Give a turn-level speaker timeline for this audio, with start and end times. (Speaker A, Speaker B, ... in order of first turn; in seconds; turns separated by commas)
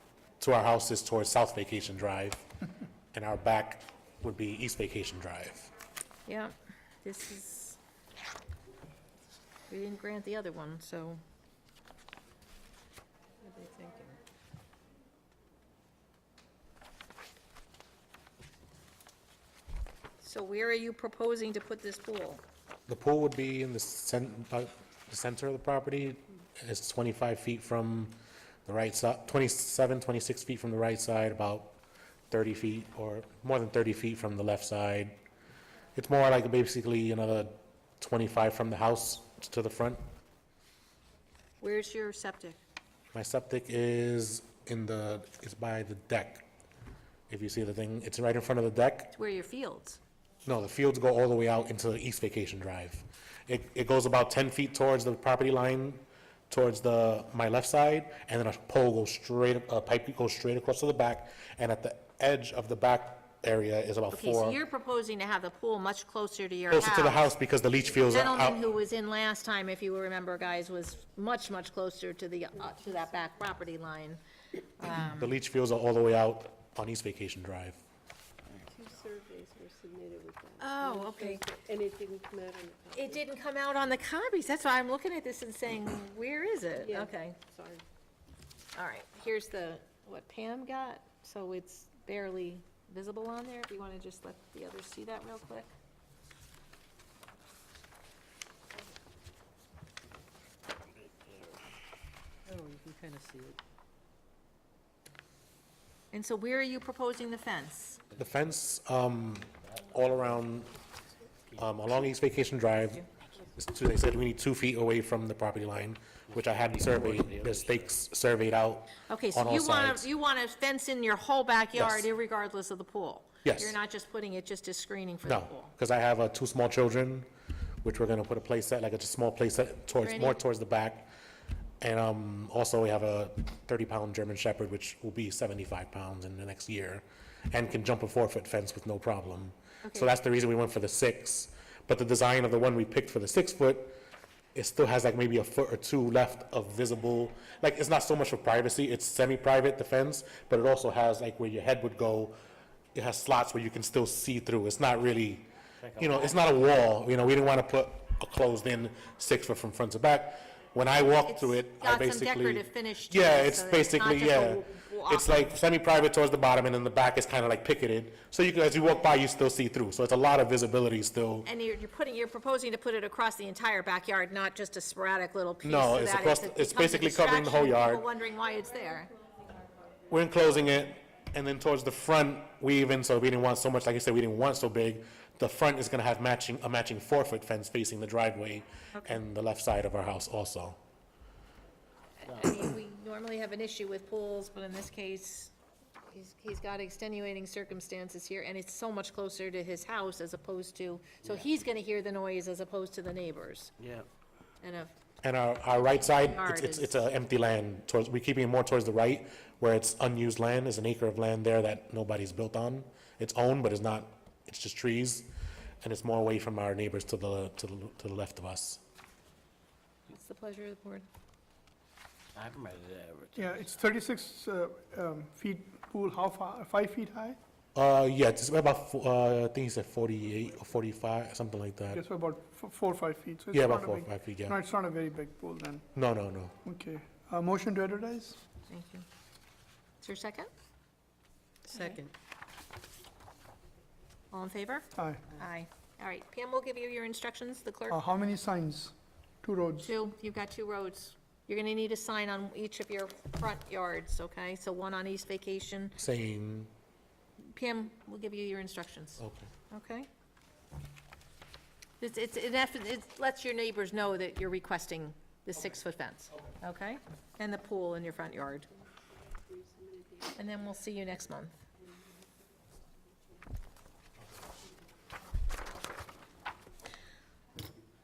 Speaker A: 0.4-2.5, Speaker A: 3.1-5.7, Speaker B: 6.2-7.8, Speaker B: 9.7-11.2, Speaker B: 13.4-14.2, Speaker B: 20.2-22.4, Speaker A: 22.9-31.8, Speaker A: 32.3-35.2, Speaker A: 35.9-40.0, Speaker B: 41.6-42.6, Speaker A: 43.1-46.5, Speaker A: 47.3-49.1, Speaker B: 49.1-50.0, Speaker A: 50.4-64.6, Speaker B: 64.1-67.3, Speaker A: 66.7-68.6, Speaker B: 68.0-74.2, Speaker B: 74.8-75.3, Speaker A: 75.0-77.8, Speaker C: 78.6-83.3, Speaker B: 80.6-81.4, Speaker B: 82.9-87.4, Speaker C: 86.7-87.8, Speaker B: 88.7-95.7, Speaker D: 102.5-103.6, Speaker B: 106.1-108.0, Speaker A: 108.1-110.7, Speaker A: 111.6-113.0, Speaker A: 113.6-120.1, Speaker D: 116.4-117.8, Speaker B: 119.0-125.7, Speaker A: 121.7-122.1, Speaker A: 123.4-123.8, Speaker A: 125.2-127.3, Speaker A: 127.8-131.1, Speaker B: 130.0-130.4, Speaker A: 131.8-144.0, Speaker B: 139.8-140.1, Speaker A: 144.5-152.3, Speaker A: 152.9-171.5, Speaker D: 155.9-156.3, Speaker B: 161.2-165.4, Speaker B: 171.4-179.1, Speaker A: 175.6-178.1, Speaker A: 180.1-190.8, Speaker B: 192.2-195.5, Speaker B: 196.1-203.7, Speaker D: 203.8-204.1, Speaker B: 204.6-204.9, Speaker A: 205.2-215.3, Speaker B: 205.7-207.0, Speaker A: 215.8-218.8, Speaker B: 220.1-221.1, Speaker D: 222.3-223.4, Speaker E: 223.3-227.4, Speaker A: 227.7-232.0, Speaker E: 231.9-235.8, Speaker A: 233.5-234.6, Speaker A: 235.9-236.5, Speaker E: 236.6-238.4, Speaker B: 238.7-239.1, Speaker B: 240.0-240.5, Speaker B: 241.7-242.0, Speaker D: 241.7-242.1, Speaker B: 244.3-248.0, Speaker E: 244.9-245.2, Speaker E: 247.9-249.9, Speaker B: 249.8-255.9, Speaker A: 256.0-256.7, Speaker B: 257.4-260.1, Speaker A: 259.2-259.5, Speaker B: 262.0-268.7, Speaker C: 268.7-270.8, Speaker B: 270.4-271.6, Speaker C: 271.8-273.5